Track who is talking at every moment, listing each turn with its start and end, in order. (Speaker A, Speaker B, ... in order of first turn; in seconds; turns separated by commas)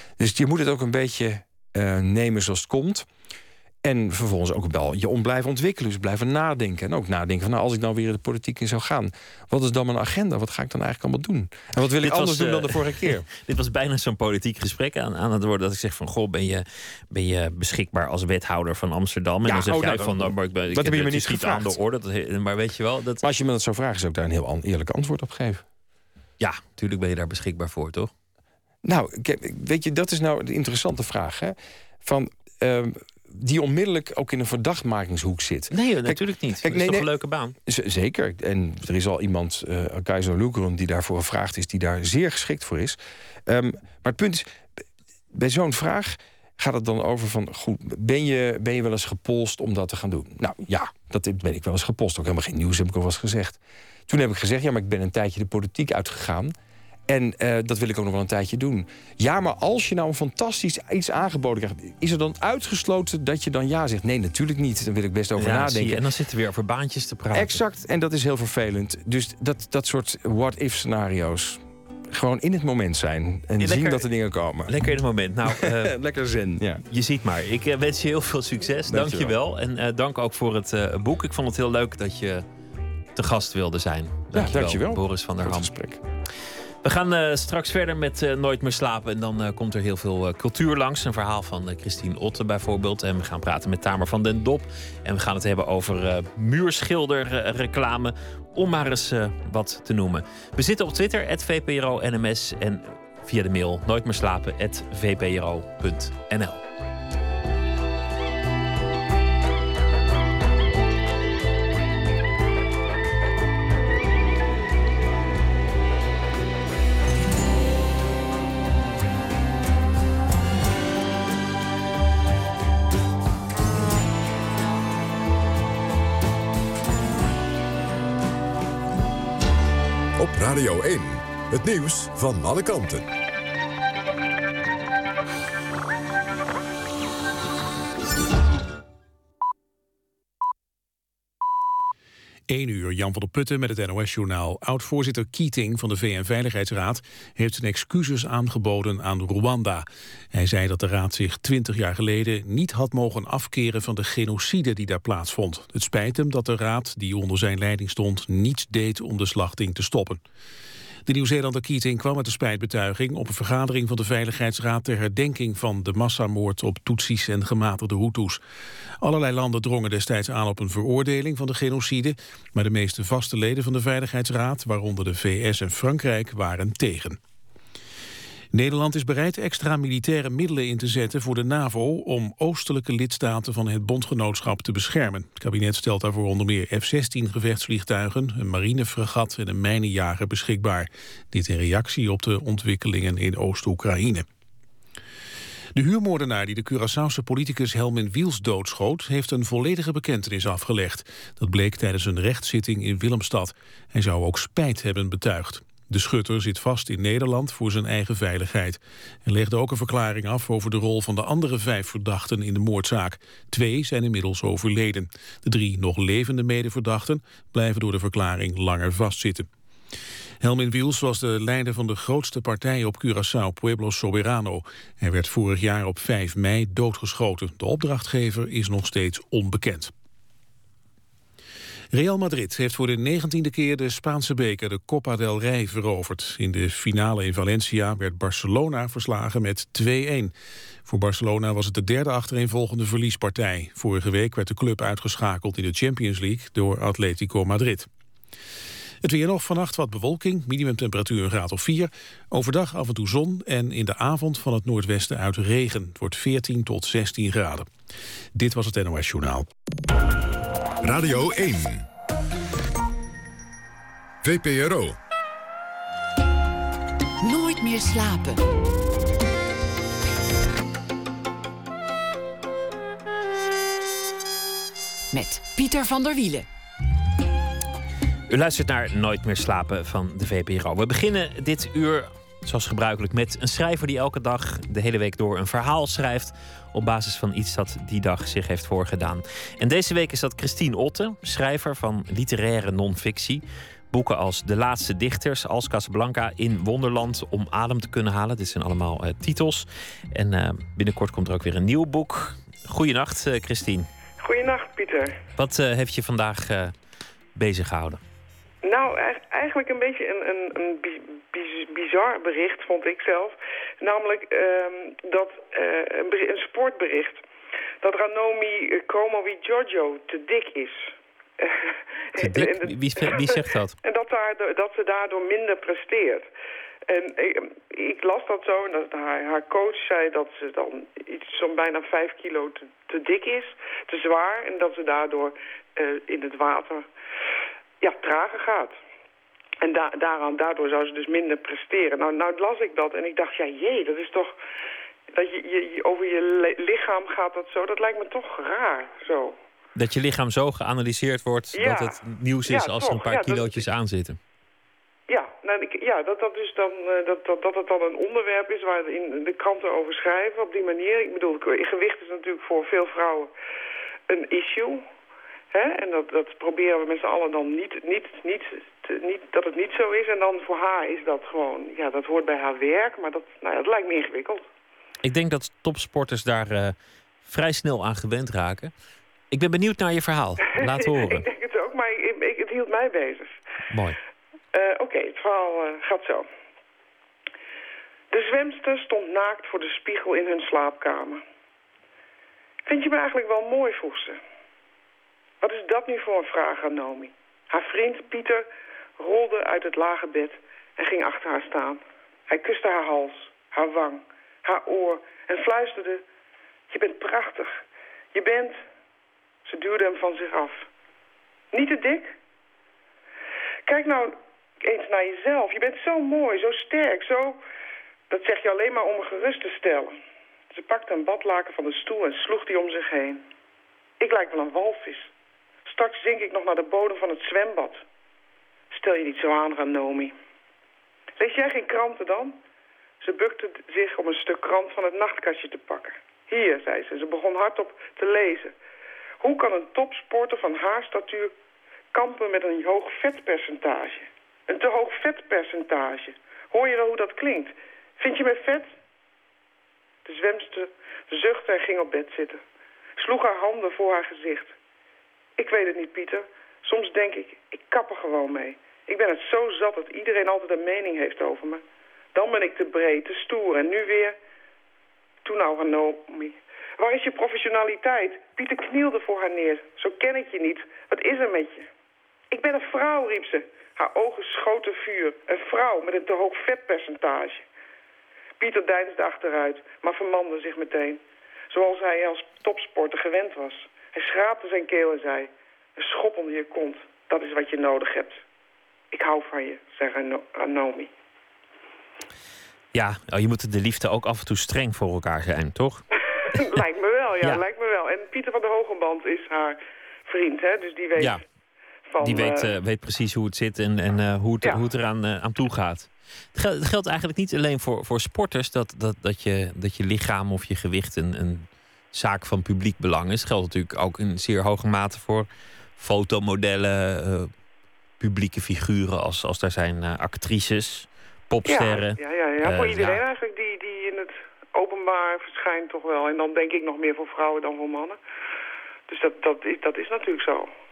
Speaker A: 0.2-3.1, Speaker A: 3.8-13.3, Speaker B: 12.0-23.2, Speaker A: 19.4-21.8, Speaker A: 23.2-25.6, Speaker B: 26.4-28.1, Speaker A: 28.8-37.1, Speaker B: 35.7-37.5, Speaker A: 37.7-44.5, Speaker A: 45.3-56.5, Speaker A: 57.1-66.0, Speaker B: 65.4-67.6, Speaker A: 67.3-74.8, Speaker B: 73.6-74.1, Speaker B: 74.7-76.0, Speaker A: 75.5-76.8, Speaker B: 76.9-82.5, Speaker A: 78.9-79.4, Speaker B: 83.2-85.7, Speaker A: 84.3-86.0, Speaker B: 86.8-106.6, Speaker C: 130.2-133.1, Speaker D: 142.5-160.2, Speaker D: 161.1-168.4, Speaker D: 169.0-177.2, Speaker D: 178.5-194.3, Speaker D: 195.8-219.5, Speaker D: 220.4-229.9, Speaker D: 231.9-240.3, Speaker D: 240.9-247.9, Speaker D: 249.0-257.7, Speaker D: 258.4-259.5, Speaker C: 260.8-261.9, Speaker C: 264.2-265.0, Speaker E: 267.2-268.4, Speaker E: 275.1-276.5, Speaker B: 278.3-303.9, Speaker F: 304.2-305.2, Speaker B: 305.4-306.7, Speaker B: 307.4-308.0, Speaker F: 308.6-317.2, Speaker F: 317.8-326.3, Speaker B: 322.2-323.8, Speaker F: 326.9-336.9, Speaker F: 337.8-338.8, Speaker F: 339.6-344.4, Speaker F: 345.1-349.4, Speaker B: 349.8-354.2, Speaker F: 351.5-353.6, Speaker F: 355.1-363.3, Speaker F: 364.1-364.9, Speaker F: 365.5-374.4, Speaker B: 375.0-378.7, Speaker B: 379.3-381.3, Speaker F: 380.6-383.3, Speaker B: 383.7-384.0, Speaker F: 384.5-386.3, Speaker F: 388.1-391.2, Speaker F: 392.7-394.2, Speaker F: 395.4-406.0, Speaker F: 406.7-408.6, Speaker F: 409.4-410.7, Speaker F: 411.5-412.1, Speaker F: 413.7-417.4, Speaker F: 418.1-420.0, Speaker F: 420.5-423.2, Speaker F: 424.0-425.1, Speaker F: 425.7-427.8, Speaker F: 428.7-430.1, Speaker F: 431.2-432.4, Speaker F: 433.0-438.6, Speaker F: 439.2-441.3, Speaker F: 441.9-448.8, Speaker F: 450.1-452.4, Speaker F: 453.0-454.5, Speaker F: 455.4-461.6, Speaker F: 462.1-464.2, Speaker F: 465.2-471.7, Speaker F: 472.3-477.4, Speaker F: 478.4-488.2, Speaker F: 488.9-490.9, Speaker B: 492.7-495.8, Speaker F: 496.1-501.2, Speaker B: 501.0-501.2, Speaker F: 501.9-502.5, Speaker B: 502.0-517.3, Speaker B: 518.0-523.0, Speaker F: 521.5-528.0, Speaker F: 528.9-530.5